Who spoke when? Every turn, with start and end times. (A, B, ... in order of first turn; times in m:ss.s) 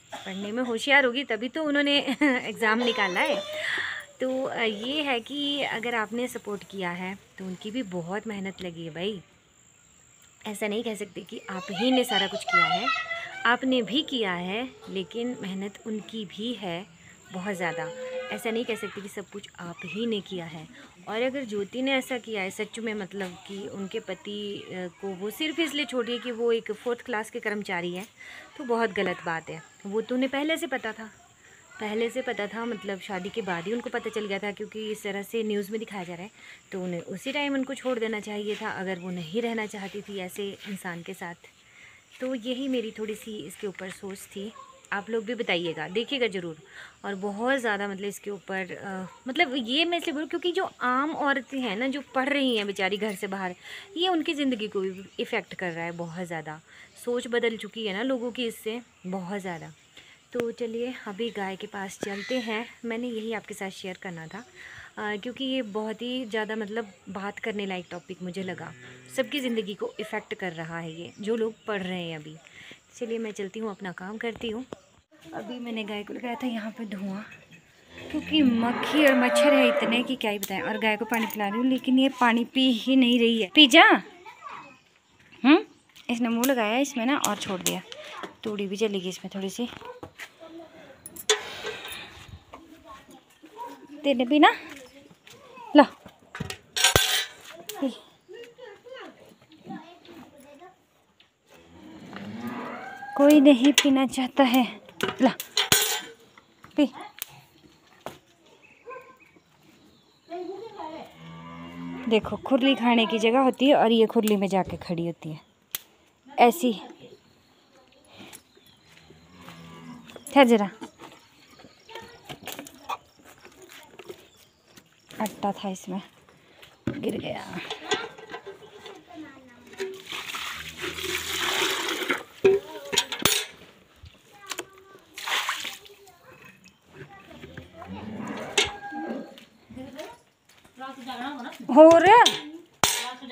0:00.2-0:09.2 A
0:10.5-0:31.1 A
0:31.8-0:41.5 A
0:42.2-0:59.8 A
1:00.3-1:14.7 A
1:15.3-1:17.3 A
1:18.1-1:24.1 A
1:25.4-1:27.8 A
1:28.4-1:29.7 A
1:34.0-1:34.6 A
1:43.2-1:45.4 A
1:52.1-1:55.4 A
1:56.4-1:56.9 A
2:00.3-2:00.7 A
2:05.2-2:06.0 A
2:06.9-2:07.6 A
2:21.7-2:22.4 A